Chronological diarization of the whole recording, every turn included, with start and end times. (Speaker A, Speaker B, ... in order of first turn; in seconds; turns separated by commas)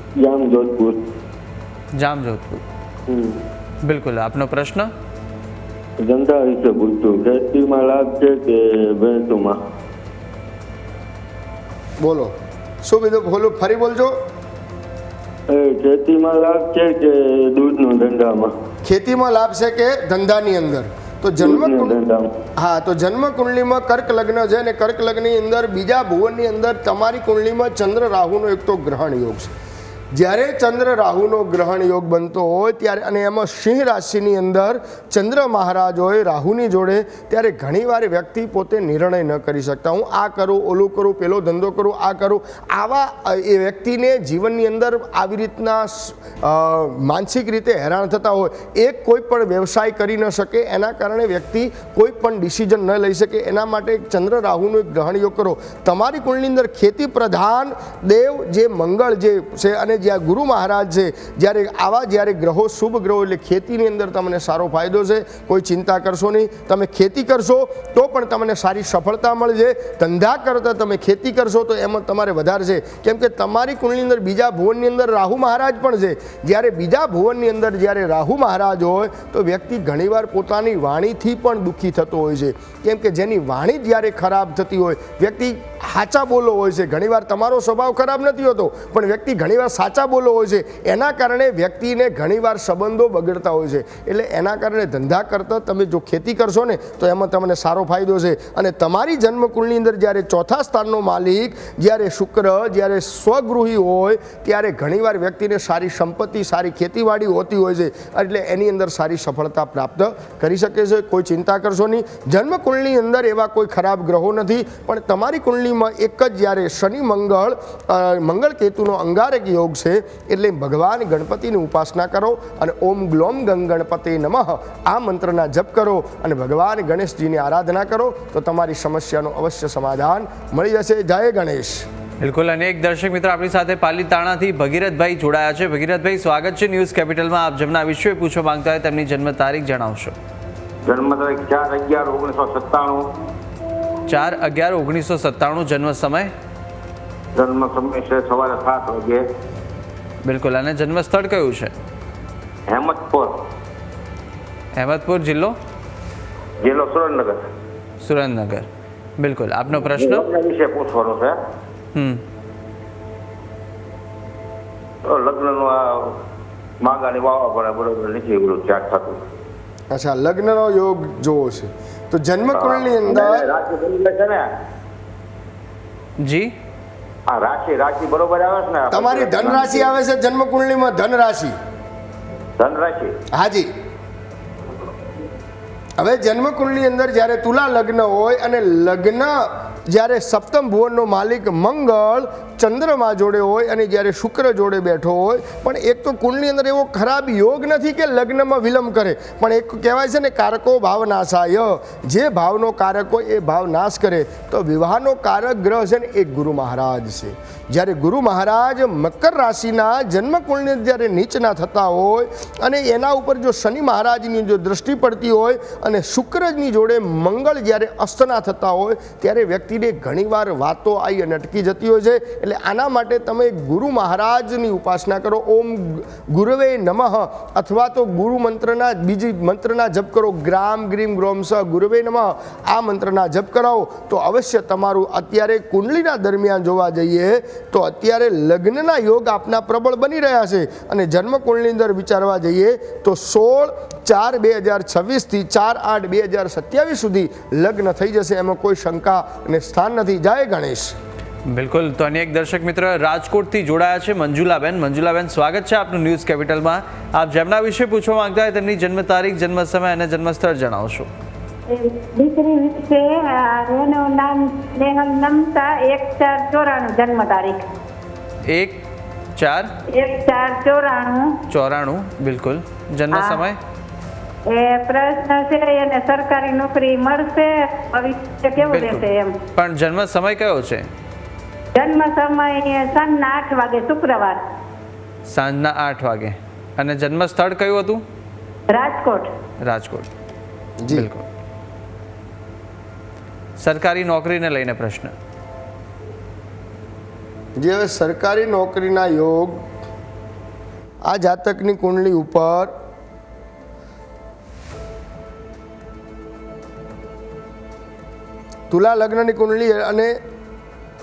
Speaker A: 0.2-1.1, Speaker B: 2.0-2.6, Speaker A: 3.1-3.4, Speaker B: 3.8-4.9, Speaker A: 6.0-9.6, Speaker C: 12.0-14.2, Speaker A: 15.5-18.5, Speaker C: 18.8-22.0, Speaker A: 21.4-22.3, Speaker C: 22.6-29.5, Speaker C: 30.1-131.9, Speaker B: 132.2-140.1, Speaker D: 140.9-143.1, Speaker B: 144.1-146.3, Speaker D: 147.3-149.2, Speaker B: 150.2-151.7, Speaker D: 152.7-153.4, Speaker B: 154.8-155.5, Speaker D: 156.6-157.4, Speaker B: 158.0-158.7, Speaker B: 159.2-160.3, Speaker D: 159.8-161.3, Speaker B: 161.9-162.2, Speaker D: 165.1-166.2, Speaker D: 166.8-169.2, Speaker C: 169.9-173.5, Speaker D: 172.5-174.4, Speaker B: 176.2-176.5, Speaker D: 177.3-179.9, Speaker C: 178.9-181.5, Speaker D: 182.6-183.2, Speaker C: 183.3-183.7, Speaker C: 186.0-250.9, Speaker B: 251.5-261.1, Speaker E: 261.7-267.6, Speaker B: 268.5-268.8, Speaker B: 269.4-269.7, Speaker E: 269.9-271.4, Speaker B: 271.5-273.6, Speaker E: 273.1-273.4, Speaker E: 274.5-279.4, Speaker B: 278.6-280.9, Speaker E: 281.7-284.4, Speaker B: 285.3-288.0, Speaker E: 288.7-289.3, Speaker B: 289.6-290.1, Speaker C: 290.8-291.1, Speaker B: 290.9-291.2, Speaker B: 293.6-295.1, Speaker C: 297.6-299.6, Speaker C: 301.0-302.7, Speaker C: 308.7-310.1